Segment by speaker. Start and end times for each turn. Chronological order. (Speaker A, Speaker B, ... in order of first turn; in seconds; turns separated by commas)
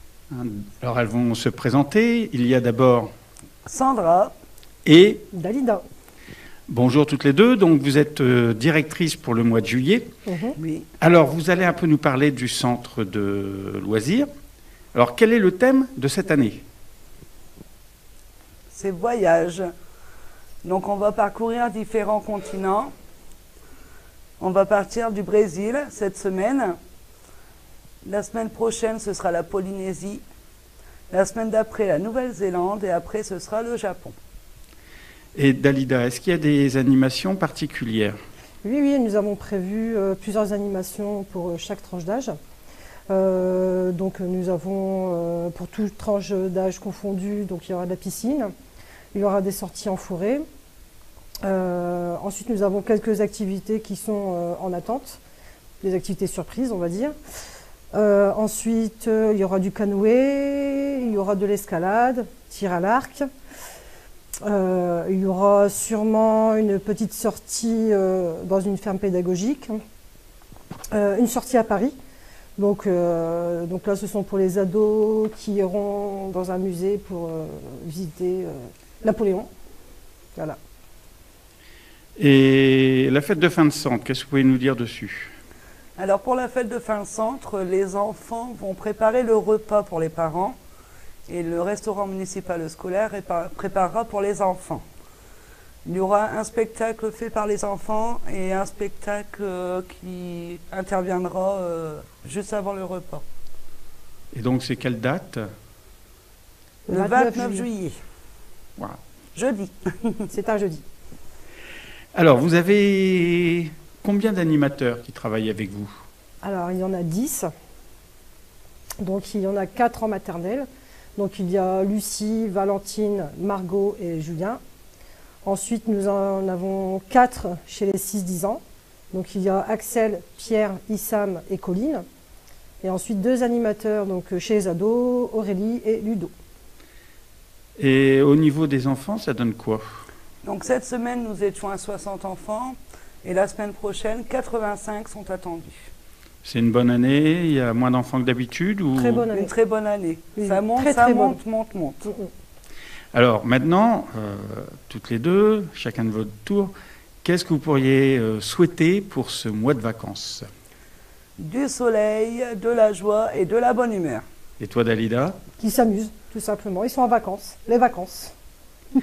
Speaker A: 0.3-3.1, Speaker B: 3.6-4.3, Speaker A: 4.8-5.3, Speaker C: 5.3-5.8, Speaker A: 6.7-10.1, Speaker C: 10.3-10.6, Speaker B: 10.6-10.9, Speaker A: 11.0-14.3, Speaker A: 14.9-16.6, Speaker B: 18.7-19.7, Speaker B: 20.6-22.9, Speaker B: 24.4-26.8, Speaker B: 28.1-30.2, Speaker B: 31.1-34.1, Speaker A: 35.4-38.2, Speaker C: 38.6-42.3, Speaker C: 43.1-48.5, Speaker C: 49.1-50.5, Speaker C: 51.5-55.2, Speaker C: 55.8-57.1, Speaker C: 57.9-63.2, Speaker C: 64.4-69.8, Speaker C: 70.9-72.0, Speaker C: 72.6-79.5, Speaker A: 82.2-85.3, Speaker B: 86.0-90.6, Speaker B: 91.3-94.8, Speaker B: 95.8-103.2, Speaker A: 104.3-105.5, Speaker C: 106.9-107.7, Speaker B: 106.9-108.0, Speaker B: 109.3-110.3, Speaker C: 110.3-110.8, Speaker A: 112.2-115.9, Speaker C: 116.4-117.5, Speaker C: 119.0-124.6, Speaker C: 125.4-132.0, Speaker C: 132.8-136.3, Speaker A: 137.8-139.8, Speaker B: 140.4-145.8, Speaker A: 146.4-149.2, Speaker C: 148.9-149.5, Speaker B: 149.3-152.1, Speaker C: 150.4-151.4, Speaker A: 153.1-156.7, Speaker A: 157.2-160.5, Speaker B: 161.4-164.2, Speaker A: 164.6-165.4, Speaker C: 165.6-168.3